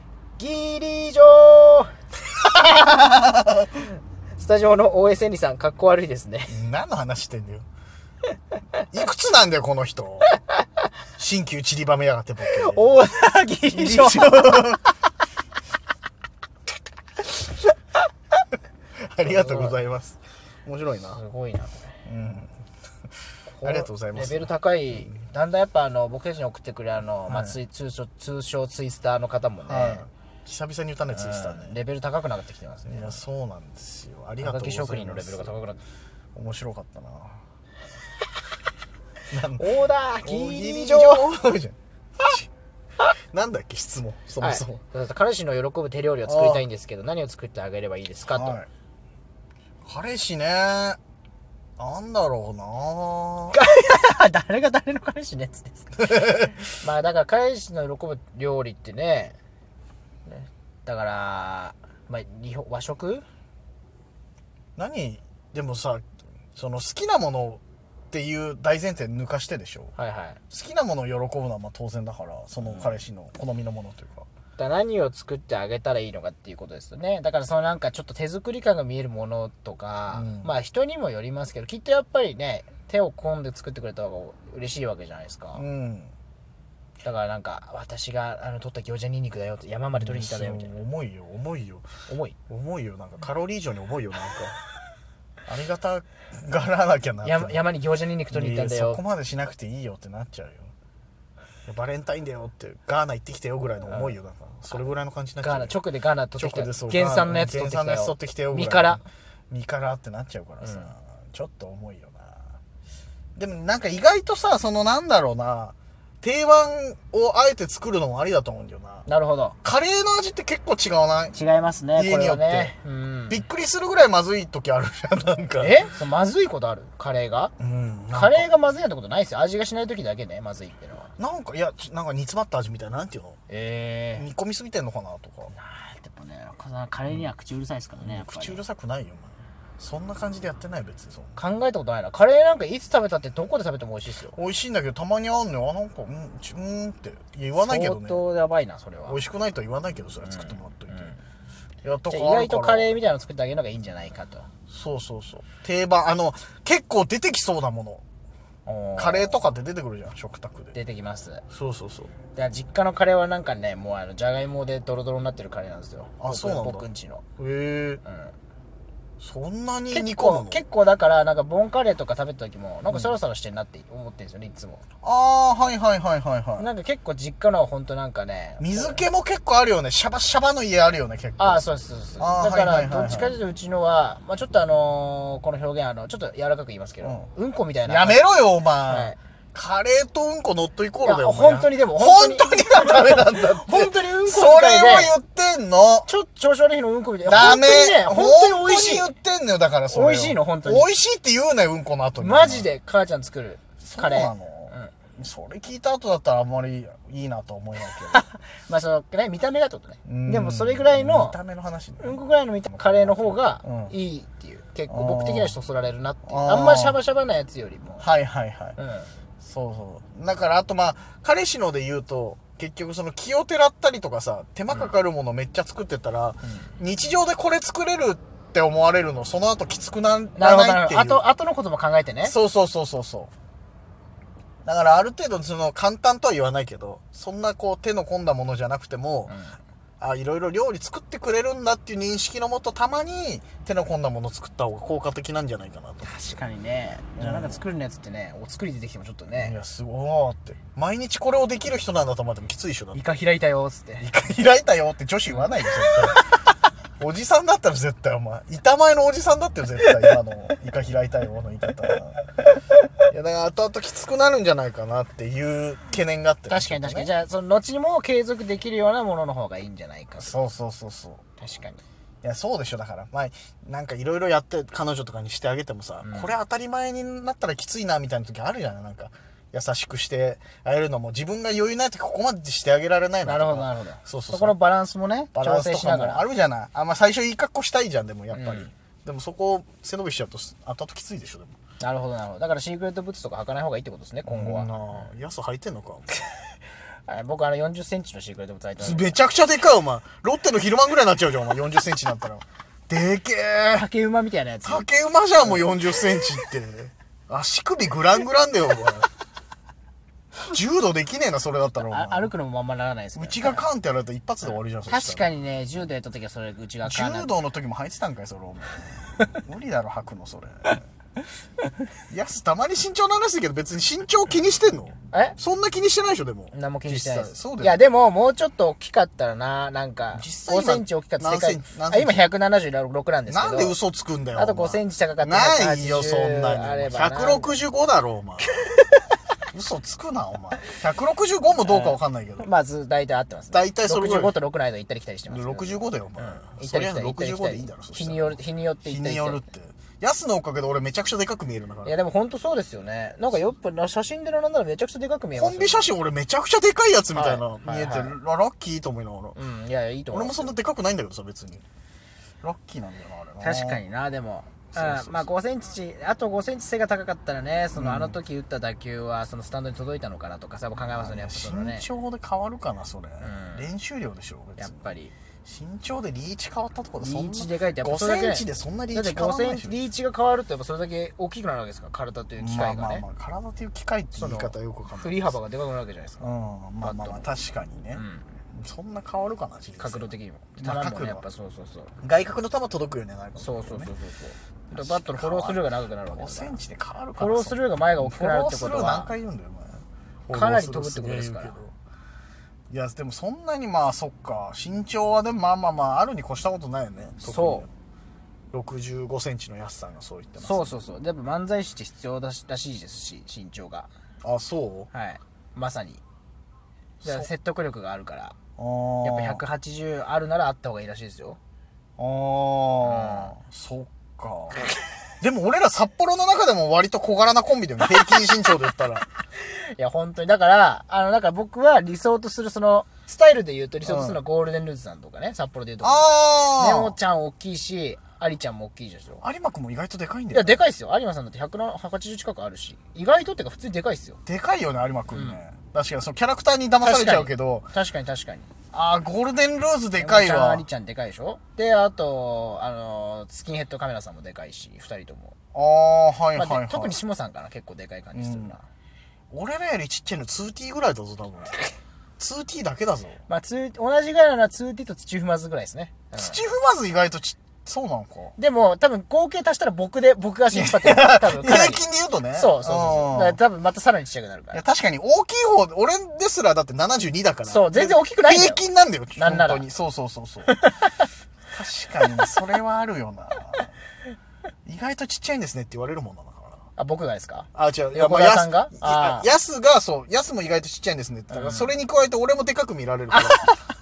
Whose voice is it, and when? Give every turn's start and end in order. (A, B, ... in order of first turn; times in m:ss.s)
0:00.4-0:01.9 A
0:02.6-0:03.7 B
0:04.4-0:06.6 A
0:06.5-0:07.7 B
0:08.9-0:10.3 B
0:11.2-0:13.0 B
0:12.6-0:14.8 A
0:13.7-0:14.9 B
0:19.0-0:21.2 B
0:19.2-0:19.8 A
0:21.1-0:22.0 A
0:22.0-0:22.5 B
0:23.5-0:30.1 A
0:23.6-0:25.2 B
0:27.3-0:27.6 B
0:29.6-0:31.8 B
0:31.1-0:33.2 A
0:32.9-0:35.6 B
0:34.4-0:35.8 A
0:36.4-0:37.4 B
0:39.3-0:42.5 B
0:39.6-0:41.3 A
0:43.3-0:44.8 B
0:44.4-0:48.6 A
0:46.3-0:46.6 B
0:48.3-0:48.7 B
0:49.8-0:51.0 B
0:51.8-0:53.6 B
0:53.5-0:59.4 A
0:56.0-0:56.6 B
1:00.3-1:03.2 A
1:04.8-1:09.9 B
1:10.0-1:10.4 A
1:10.5-1:14.3 B
1:12.6-1:13.0 A
1:14.6-1:25.6 A
1:20.1-1:20.5 B
1:25.5-1:26.1 B
1:27.0-1:30.7 A
1:30.0-1:31.9 B
1:32.1-1:32.4 A
1:32.5-1:34.6 B
1:35.5-1:37.6 B
1:37.2-1:39.0 A
1:38.3-1:40.7 B
1:41.7-1:45.8 B
1:43.8-1:44.2 A
1:45.4-1:49.0 A
1:46.3-1:52.4 B
1:50.6-1:50.9 A
1:53.4-1:59.1 B
1:59.1-1:59.6 A
1:59.6-2:01.4 B
2:01.3-2:03.4 A
2:01.9-2:02.8 B
2:03.3-2:05.9 B
2:05.6-2:07.5 A
2:07.6-2:08.5 B
2:08.1-2:11.1 A
2:11.2-2:13.4 B
2:13.5-2:14.3 A
2:14.2-2:15.6 B
2:15.5-2:18.6 A
2:18.0-2:21.3 B
2:21.3-2:24.4 A
2:24.3-2:28.2 B
2:27.6-2:29.2 A
2:29.1-2:31.2 B
2:30.2-2:31.2 A
2:31.8-2:33.0 B
2:32.1-2:34.5 A
2:34.7-2:38.0 B
2:38.7-2:39.4 A
2:39.0-2:40.8 B
2:40.7-2:41.4 A
2:41.5-2:42.1 B
2:42.3-2:47.2 A
2:46.2-2:48.0 B
2:48.0-2:48.3 A
2:49.2-2:50.6 B
2:49.9-2:54.8 A
2:52.9-2:53.2 B
2:55.0-2:56.7 B
2:56.6-2:59.0 A
2:58.6-3:01.7 B
3:01.4-3:08.2 A
3:02.2-3:03.3 B
3:07.0-3:07.3 B
3:07.8-3:16.1 B
3:08.8-3:09.2 A
3:11.0-3:15.1 A
3:16.1-3:19.1 A
3:17.2-3:22.7 B
3:19.9-3:20.9 A
3:22.2-3:24.9 A
3:23.8-3:28.2 B
3:27.8-3:31.4 A
3:30.1-3:33.9 B
3:32.0-3:38.1 A
3:34.9-3:35.6 B
3:36.2-3:37.0 B
3:38.0-3:38.8 B
3:38.8-3:39.1 A
3:39.4-3:51.2 B
3:46.4-3:46.7 A
3:50.4-3:52.4 A
3:52.2-3:53.3 B
3:54.6-3:59.4 B
3:59.3-3:59.6 A
4:00.0-4:06.4 B
4:06.0-4:09.6 A
4:07.2-4:07.6 B
4:09.3-4:13.0 B
4:12.9-4:14.1 A
4:14.0-4:16.2 B
4:15.3-4:16.3 A
4:17.0-4:22.3 B
4:23.0-4:27.1 B
4:26.5-4:30.4 A
4:30.2-4:31.3 B
4:31.4-4:31.8 A
4:32.2-4:44.6 B
4:36.0-4:36.3 A
4:43.2-4:46.2 A
4:45.3-4:51.6 B
4:48.3-4:48.7 A
4:51.8-4:54.8 A
4:54.2-4:56.1 B
4:57.1-4:59.2 A
4:58.8-5:03.9 B
5:03.7-5:04.9 A
5:04.6-5:09.1 B
5:05.4-5:05.7 A
5:10.5-5:12.3 B
5:11.8-5:13.6 A
5:13.2-5:15.3 B
5:14.4-5:17.3 A
5:16.8-5:20.8 B
5:22.1-5:27.8 B
5:25.1-5:25.4 A
5:26.5-5:33.8 A
5:30.1-5:32.3 B
5:33.3-5:38.6 B
5:34.4-5:37.6 A
5:38.5-5:39.1 A
5:39.5-5:42.5 B
5:41.6-5:49.4 A
5:43.5-5:44.4 B
5:45.3-5:51.9 B
5:51.8-5:55.9 A
5:55.3-5:59.4 B
5:57.1-5:58.2 A
5:59.3-6:00.6 A
6:00.1-6:01.6 B
6:02.4-6:03.8 B
6:03.4-6:11.9 A
6:04.7-6:05.3 B
6:07.7-6:08.2 B
6:10.8-6:14.8 B
6:13.2-6:13.7 A
6:14.6-6:15.1 A
6:15.4-6:19.8 B
6:17.0-6:23.1 A
6:22.4-6:25.4 B
6:24.1-6:26.3 A
6:26.2-6:31.2 B
6:26.8-6:27.3 A
6:27.9-6:28.3 A
6:29.8-6:31.9 A
6:32.0-6:33.9 B
6:33.4-6:36.6 A
6:34.7-6:41.7 B
6:37.2-6:39.1 A
6:40.3-6:41.6 A
6:42.7-6:47.7 B
6:47.2-6:47.7 A
6:48.5-6:50.8 B
6:50.4-6:53.9 A
6:54.2-6:54.9 B
6:54.9-6:56.0 A
6:57.0-6:57.3 B
6:57.0-6:58.4 A
6:58.6-6:59.4 B
6:59.0-7:01.4 A
7:02.0-7:04.7 B
7:02.8-7:03.4 A
7:05.2-7:09.1 B
7:09.4-7:19.2 A
7:13.8-7:14.2 B
7:15.8-7:17.0 B
7:19.2-7:20.6 B
7:20.3-7:24.2 A
7:24.2-7:27.7 B
7:25.1-7:25.4 A
7:26.8-7:28.5 A
7:28.7-7:30.7 B
7:30.0-7:35.4 A
7:35.5-7:37.0 B
7:36.4-7:38.6 A
7:38.1-7:38.6 B
7:39.3-7:41.6 B
7:42.2-7:43.2 B
7:43.3-7:46.4 A
7:46.1-7:48.4 B
7:48.4-7:54.6 A
7:50.5-7:53.4 B
7:54.5-8:00.5 B
7:57.5-7:58.6 A
7:59.2-7:59.6 A
8:00.5-8:01.0 A
8:01.5-8:03.7 B
8:04.6-8:06.5 B
8:06.8-8:09.3 A
8:07.5-8:13.5 B
8:11.3-8:11.7 A
8:13.1-8:13.5 A